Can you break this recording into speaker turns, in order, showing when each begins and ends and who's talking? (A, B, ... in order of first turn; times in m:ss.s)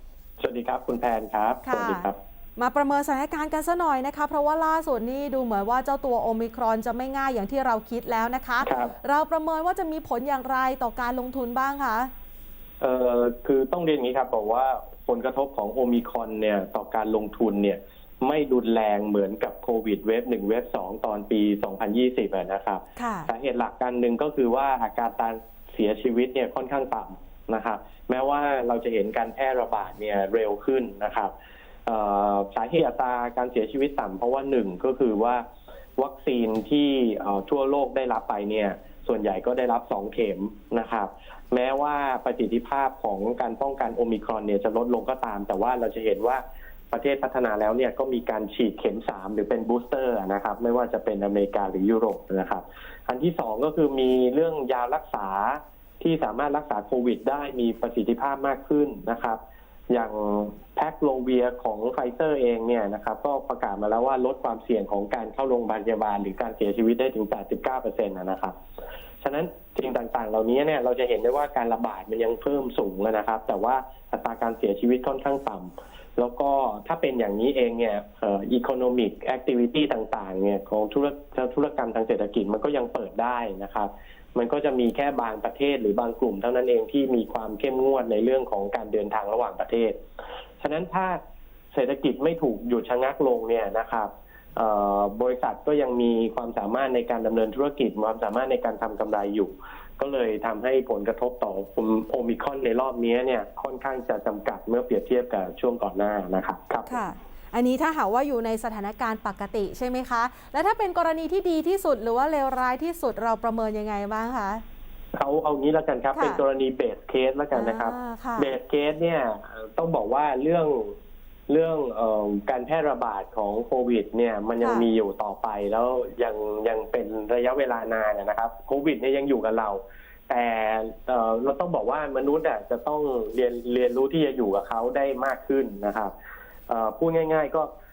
0:00.4-0:02.2 A
0:01.6-0:12.1 B
0:08.6-0:08.9 A
0:12.8-0:31.3 A
0:23.0-0:23.3 B
0:31.9-0:35.4 A
0:36.0-0:59.4 A
0:59.9-1:08.6 A
1:09.2-1:30.0 A
1:30.6-1:31.2 A
1:31.7-1:47.0 A
1:46.9-1:54.6 B
1:55.2-2:00.9 A
1:56.1-1:56.4 B
1:57.5-1:58.5 B
2:01.5-2:16.1 A
2:04.6-2:04.9 B
2:16.7-2:17.7 A